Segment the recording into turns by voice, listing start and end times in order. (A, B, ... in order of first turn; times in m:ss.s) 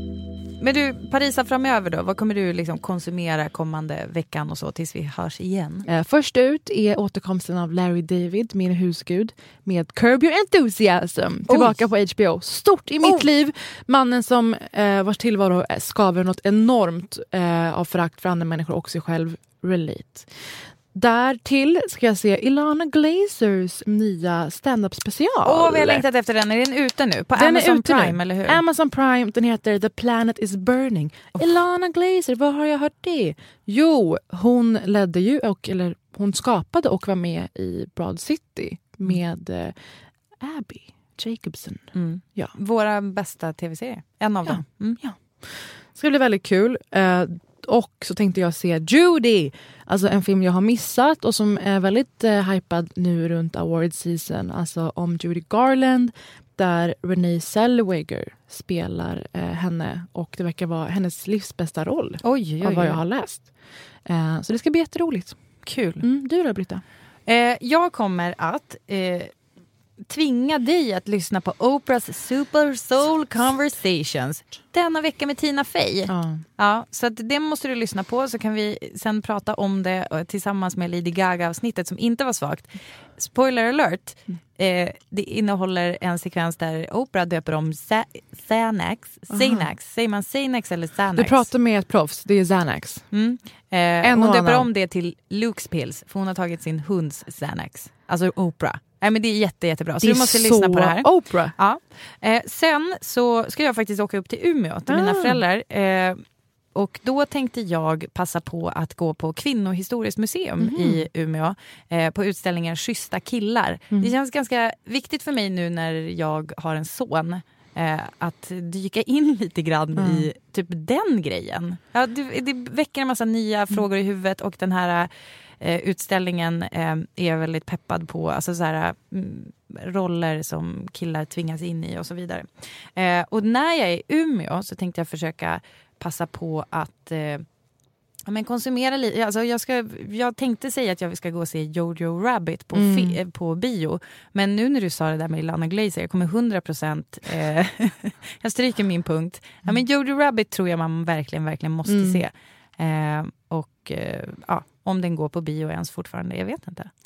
0:00.6-0:05.9 A
0:05.9-0:26.0 B
0:11.5-0:11.8 A
0:25.4-0:28.6 A
0:27.4-0:39.8 B
0:40.4-0:42.5 B
0:41.9-0:45.0 A
0:44.4-1:03.5 B
1:02.2-1:03.0 A
1:04.0-1:05.4 B
1:05.6-1:06.0 A
1:06.0-1:06.8 B
1:07.2-1:09.3 A
1:10.1-1:31.5 A
1:16.1-1:16.4 B
1:29.3-1:29.7 B
1:31.2-1:33.0 B
1:33.1-1:46.2 A
1:34.0-1:34.7 B
1:40.0-1:41.5 B
1:44.9-1:45.4 B
1:46.7-2:17.4 A
1:50.6-1:51.0 B
2:00.0-2:00.3 B
2:18.3-2:36.9 A
2:22.7-2:23.2 B
2:31.9-2:32.2 B